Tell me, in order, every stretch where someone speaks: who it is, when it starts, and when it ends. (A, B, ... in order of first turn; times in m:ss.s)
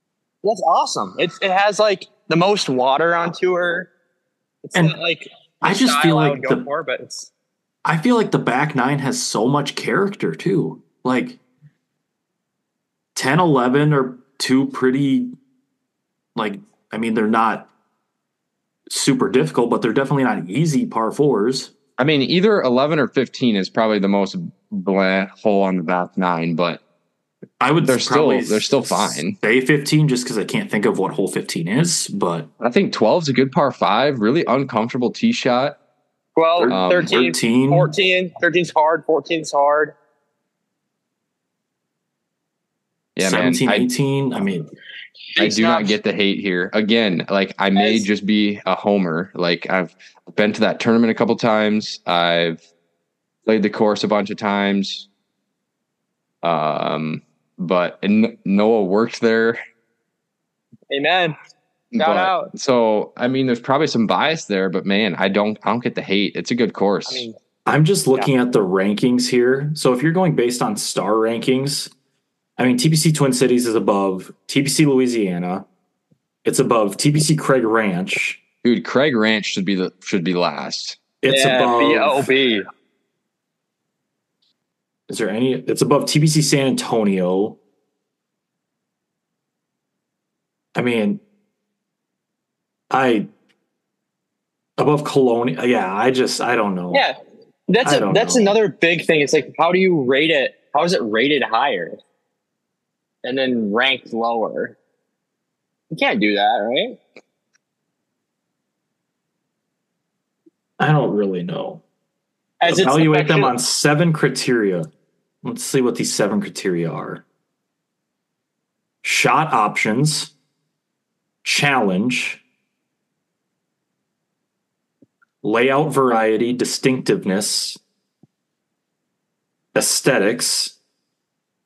0:00.4-0:03.9 A
0:04.6-0:07.3 A
0:05.6-0:06.6 B
0:07.8-0:11.4 B
0:13.1-0:15.3 B
0:16.4-0:17.7 B
0:18.9-0:21.7 B
0:22.0-0:26.8 C
0:27.6-0:32.5 B
0:27.8-0:29.4 C
0:32.6-0:35.8 C
0:36.4-0:39.9 A
0:36.6-0:37.9 B
0:36.6-0:37.1 C
0:43.2-0:43.9 C
0:43.2-0:44.7 B
0:45.4-0:45.9 A
0:45.4-0:52.6 C
0:47.8-0:48.0 A
0:53.4-0:55.1 C
0:56.4-0:59.6 C
1:00.9-1:01.4 A
1:01.9-1:07.3 C
1:02.0-1:02.5 A
1:07.1-1:07.4 A
1:07.6-1:11.9 B
1:12.6-1:15.6 B
1:16.4-1:18.4 B
1:18.6-1:21.0 C
1:21.2-1:22.3 B
1:21.3-1:22.6 A
1:25.1-1:27.6 B
1:30.7-1:31.2 B
1:32.9-1:33.3 B
1:34.8-1:37.0 B
1:37.7-1:42.0 A
1:37.8-1:38.6 B
1:43.2-1:44.8 A
1:45.9-1:47.0 A
1:50.8-1:51.8 B
1:52.6-1:53.5 A
1:52.6-1:54.9 B
1:55.4-1:57.2 B
1:59.0-2:00.3 B
2:01.4-2:02.4 B
2:05.4-2:07.8 B
2:09.7-2:10.8 B